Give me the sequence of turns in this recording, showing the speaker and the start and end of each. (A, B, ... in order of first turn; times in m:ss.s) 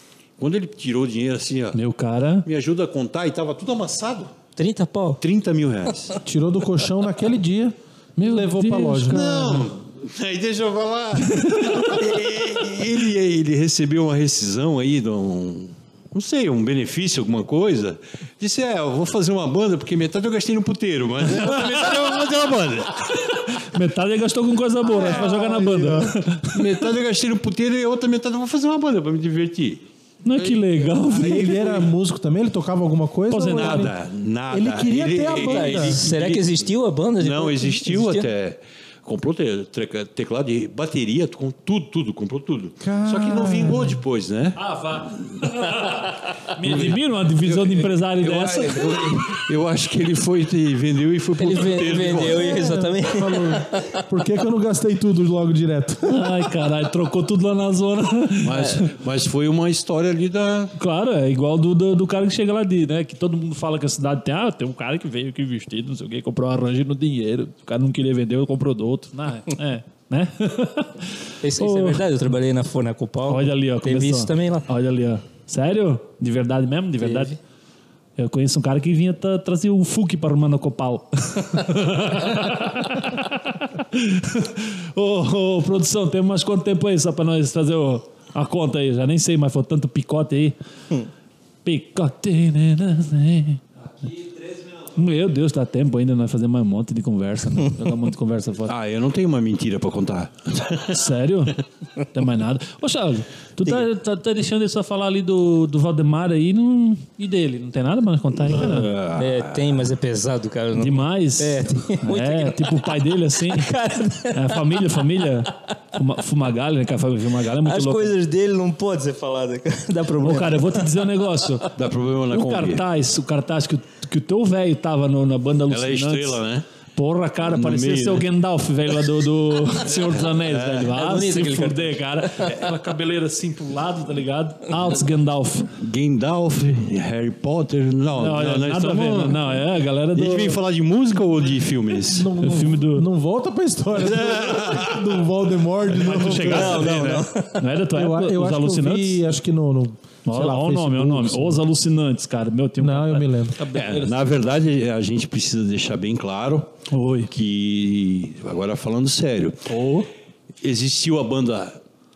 0:00.4-0:01.8 A
0:01.7-0:02.5 B
0:02.4-0:04.3 A
0:04.6-0:05.2 C
0:05.2-0:06.2 A
0:06.2-0:09.6 D
0:08.2-0:09.6 B
0:09.0-0:23.1 A
0:11.3-0:11.9 B
0:21.4-0:21.9 B
0:23.3-0:26.6 B
0:24.9-0:29.9 A
0:25.2-0:26.0 D
0:30.2-0:31.6 B
0:30.4-0:31.9 A
0:31.1-0:33.9 D
0:33.3-0:33.9 B
0:33.5-0:36.6 A
0:34.5-0:36.0 D
0:35.4-0:38.3 C
0:37.2-0:44.6 A
0:42.8-0:44.0 D
0:44.6-0:49.0 B
0:46.6-0:52.8 A
0:51.4-0:54.0 C
0:52.4-0:56.3 D
0:56.0-0:58.8 B
0:58.4-1:00.7 A
1:00.8-1:12.0 B
1:11.4-1:14.7 C
1:13.3-1:17.4 B
1:17.0-1:17.4 C
1:18.2-1:30.6 B
1:31.6-1:33.6 B
1:34.9-1:38.7 B
1:38.7-1:41.1 A
1:40.9-1:48.9 B
1:48.5-1:49.8 A
1:49.2-1:54.9 C
1:50.8-1:53.7 B
1:54.3-1:58.1 B
1:57.6-2:00.9 C
2:00.2-2:01.7 B
2:01.7-2:02.8 A
2:02.3-2:06.4 B
2:05.7-2:06.7 A
2:07.0-2:15.7 B
2:07.4-2:08.3 A
2:09.8-2:10.9 A
2:10.9-2:12.5 C
2:15.8-2:19.5 A
2:18.2-2:20.6 B
2:20.1-2:22.3 A
2:22.0-2:27.0 D
2:22.4-2:23.1 B
2:24.0-2:25.2 A
2:25.9-2:29.2 B
2:26.0-2:26.5 A
2:26.4-2:27.7 C
2:27.9-2:31.6 D
2:30.2-2:34.3 B
2:32.8-2:33.6 D
2:33.7-2:36.8 A
2:36.9-2:37.3 B
2:37.3-2:39.7 A
2:39.7-2:40.1 B
2:40.6-2:41.8 A